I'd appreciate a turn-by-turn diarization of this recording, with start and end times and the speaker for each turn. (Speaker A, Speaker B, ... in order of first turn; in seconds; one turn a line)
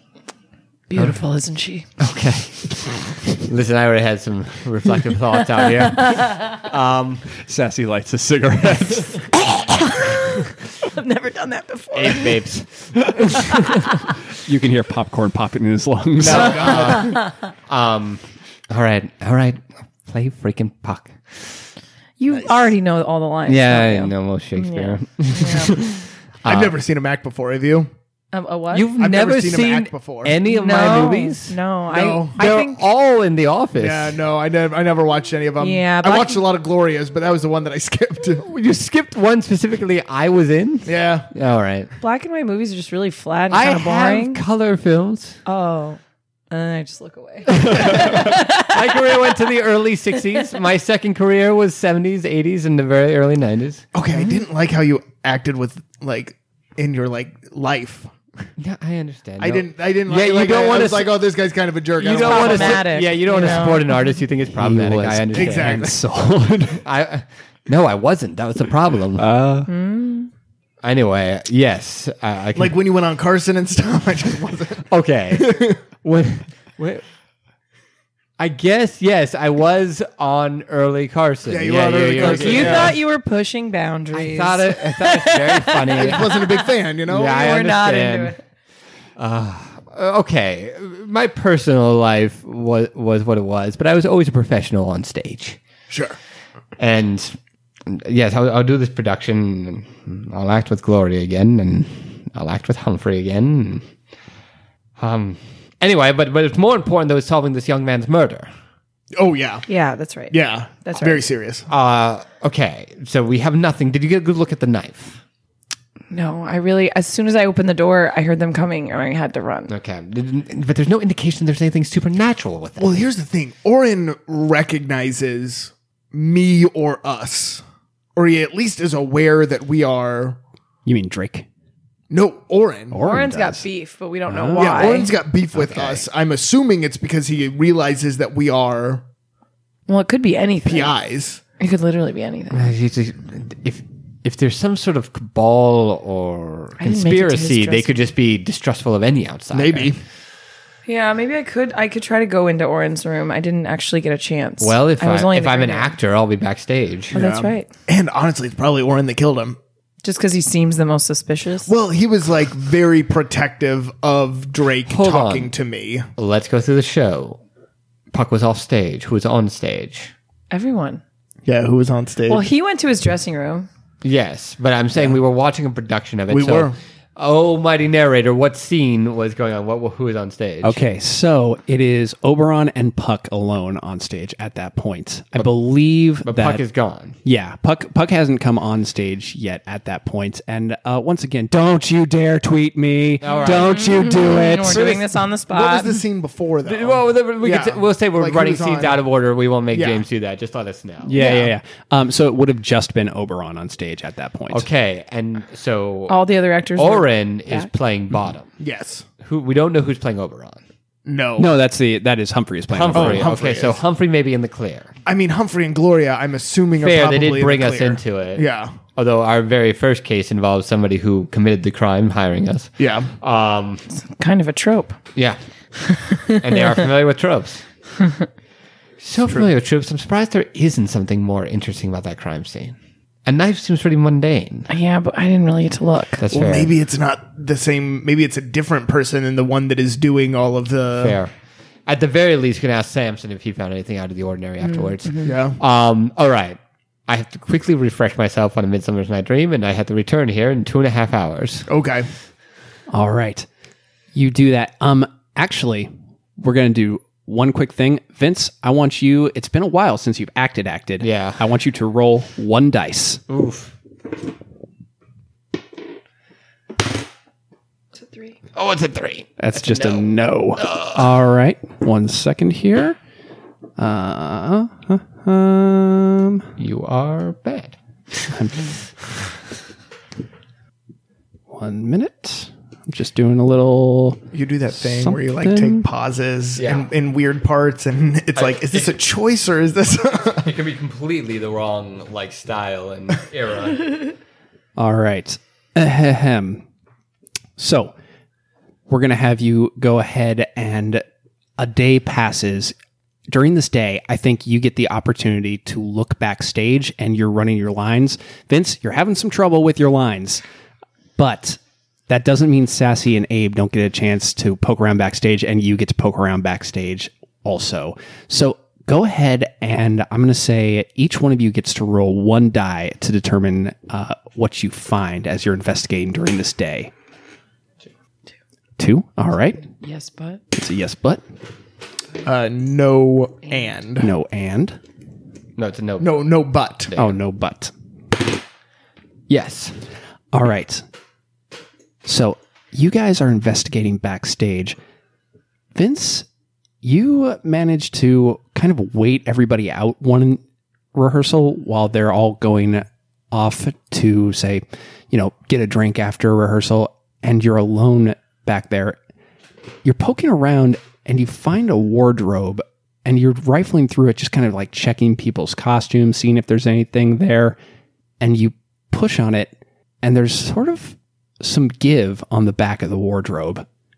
Speaker A: 0.9-1.9
Speaker B: 2.0-7.3
Speaker A: 6.0-6.3
Speaker C: 7.4-9.3
Speaker A: 9.5-12.4
Speaker B: 11.9-13.9
Speaker C: 14.4-16.9
Speaker D: 16.2-17.2
Speaker B: 16.2-21.7
Speaker A: 16.8-17.3
Speaker A: 22.2-25.8
Speaker B: 23.5-26.8
Speaker D: 26.5-27.9
Speaker A: 28.3-28.9
Speaker B: 28.7-31.6
Speaker D: 29.0-30.4
Speaker A: 30.4-32.8
Speaker D: 31.9-32.4
Speaker B: 32.3-34.2
Speaker D: 33.8-38.4
Speaker A: 35.6-36.4
Speaker B: 38.4-41.9
Speaker D: 40.9-41.3
Speaker A: 42.0-44.4
Speaker B: 43.5-45.4
Speaker A: 45.5-46.0
Speaker A: 46.5-49.2
Speaker B: 47.5-53.9
Speaker D: 53.9-58.1
Speaker A: 54.1-54.4
Speaker B: 58.6-61.2
Speaker D: 59.4-62.9
Speaker B: 62.0-65.9
Speaker A: 62.1-64.1
Speaker C: 64.5-66.8
Speaker D: 65.3-66.0
Speaker B: 66.8-69.3
Speaker C: 69.2-69.7
Speaker A: 69.7-70.3
Speaker B: 70.8-72.8
Speaker D: 72.5-75.8
Speaker B: 74.9-77.0
Speaker B: 78.4-83.0
Speaker D: 81.5-83.0
Speaker A: 82.2-86.5
Speaker B: 84.1-88.3
Speaker D: 86.0-87.5
Speaker A: 87.1-88.4
Speaker B: 89.2-95.6
Speaker D: 95.9-96.2
Speaker B: 96.8-97.4
Speaker B: 97.9-103.8
Speaker B: 105.0-108.5
Speaker D: 109.2-109.7
Speaker A: 109.7-111.2
Speaker D: 110.3-111.6
Speaker B: 111.7-115.2
Speaker A: 116.1-119.7
Speaker B: 119.7-123.0
Speaker D: 122.8-127.6
Speaker D: 128.2-130.4
Speaker C: 130.8-131.5
Speaker D: 132.1-133.0
Speaker C: 132.9-133.6
Speaker A: 133.0-135.1
Speaker C: 134.3-134.9
Speaker D: 134.6-139.0
Speaker B: 135.5-136.0
Speaker A: 139.9-140.9
Speaker D: 140.6-141.4
Speaker A: 141.6-142.7
Speaker B: 142.5-149.9
Speaker A: 146.8-148.0
Speaker D: 149.5-150.0
Speaker A: 150.9-155.9
Speaker B: 154.6-157.2
Speaker A: 157.1-157.7
Speaker D: 157.1-159.6
Speaker A: 160.0-161.7
Speaker D: 161.7-166.1
Speaker B: 164.9-165.5
Speaker B: 166.2-167.4
Speaker B: 168.1-170.1
Speaker A: 170.5-171.0
Speaker D: 171.4-172.4
Speaker A: 172.3-173.7
Speaker B: 174.0-180.8
Speaker D: 176.3-176.7
Speaker C: 180.6-186.6
Speaker B: 186.2-187.2
Speaker C: 187.2-195.1
Speaker B: 193.2-194.0
Speaker A: 193.4-195.9
Speaker D: 195.5-199.0
Speaker B: 196.7-201.2
Speaker D: 199.7-200.0
Speaker C: 201.0-204.7
Speaker A: 201.2-201.5
Speaker B: 204.5-206.2
Speaker A: 206.1-207.7
Speaker B: 206.7-208.5
Speaker D: 208.6-209.1
Speaker B: 209.2-210.6
Speaker D: 211.1-211.5
Speaker C: 211.4-213.4
Speaker B: 212.7-214.9
Speaker D: 212.9-213.8
Speaker D: 215.1-218.7
Speaker B: 216.8-223.8
Speaker D: 222.8-223.1
Speaker A: 223.9-225.0
Speaker A: 225.9-226.5
Speaker B: 226.2-227.7
Speaker B: 229.0-234.7
Speaker A: 234.7-236.2
Speaker B: 236.2-236.7
Speaker D: 236.3-241.2
Speaker B: 240.9-241.3
Speaker B: 241.9-251.7
Speaker A: 244.8-245.3
Speaker D: 245.2-245.6
Speaker D: 251.7-252.1
Speaker C: 252.9-253.5
Speaker C: 254.1-263.2
Speaker B: 261.0-261.4
Speaker B: 263.3-263.7
Speaker A: 268.1-268.3
Speaker B: 268.5-271.1
Speaker C: 269.4-273.0
Speaker C: 273.8-276.5
Speaker B: 276.6-278.3
Speaker C: 278.3-278.7
Speaker C: 281.5-285.9
Speaker D: 284.3-290.5
Speaker B: 286.6-286.9
Speaker B: 288.4-288.9
Speaker B: 290.3-294.1
Speaker C: 294.8-296.6
Speaker C: 297.6-297.9
Speaker C: 298.9-301.0
Speaker C: 301.6-302.7
Speaker C: 303.3-310.4
Speaker C: 311.1-326.9
Speaker C: 328.8-329.6
Speaker A: 329.6-330.4
Speaker C: 330.5-331.2
Speaker D: 332.2-334.1
Speaker C: 334.0-334.8
Speaker B: 335.6-336.2
Speaker D: 336.0-336.9
Speaker B: 336.9-337.1
Speaker C: 336.9-337.7
Speaker B: 339.3-339.8
Speaker C: 340.3-340.8
Speaker C: 342.0-344.8
Speaker C: 345.7-346.3
Speaker C: 346.8-350.4
Speaker C: 350.9-359.0
Speaker C: 359.8-367.6
Speaker C: 368.2-373.6